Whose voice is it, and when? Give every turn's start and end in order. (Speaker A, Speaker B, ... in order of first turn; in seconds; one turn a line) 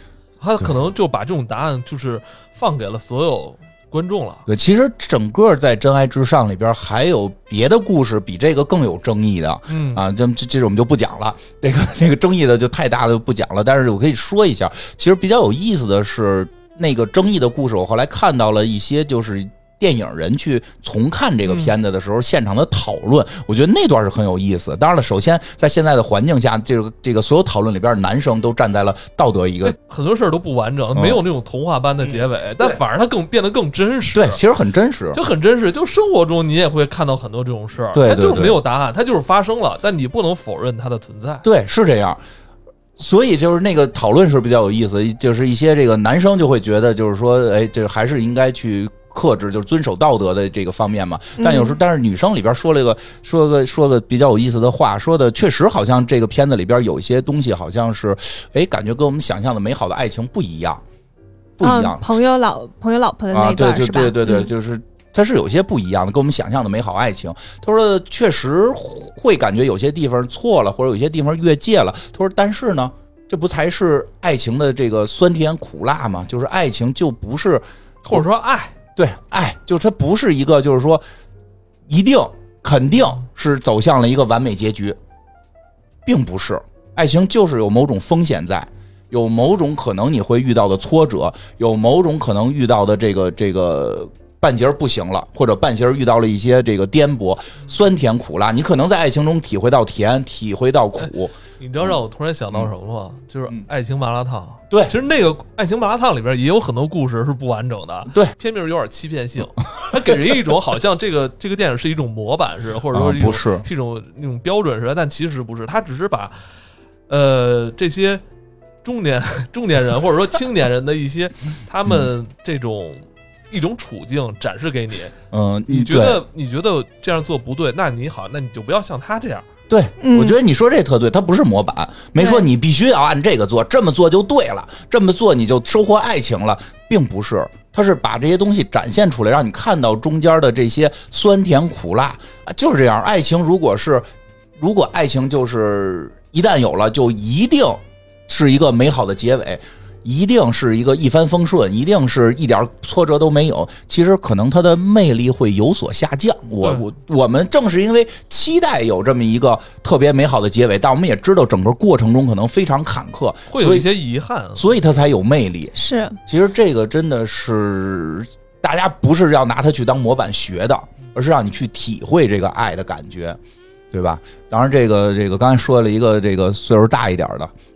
Speaker A: 0.4-4.5
Speaker B: 4.5-29.8
Speaker A: 9.7-10.0
Speaker A: 21.5-21.7
Speaker A: 29.6-34.4
Speaker B: 30.9-31.2
Speaker B: 32.1-32.8
Speaker B: 34.1-35.2
Speaker A: 35.1-41.4
Speaker B: 37.9-38.6
Speaker B: 41.4-42.2
Speaker B: 43.0-60.8
Speaker C: 51.4-51.8
Speaker B: 61.6-62.1
Speaker C: 61.6-64.5
Speaker B: 63.3-78.2
Speaker A: 78.0-78.7
Speaker B: 79.0-81.0
Speaker B: 81.9-85.0
Speaker B: 86.0-102.0
Speaker A: 101.6-116.4
Speaker B: 112.9-113.7
Speaker A: 117.1-118.2
Speaker A: 118.8-125.1
Speaker B: 125.3-126.2
Speaker A: 125.7-129.5
Speaker B: 129.7-163.9
Speaker C: 130.0-130.4
Speaker C: 132.2-132.5
Speaker A: 163.5-164.9
Speaker B: 164.6-165.7
Speaker C: 165.8-166.2
Speaker B: 166.3-173.4
Speaker B: 173.9-177.5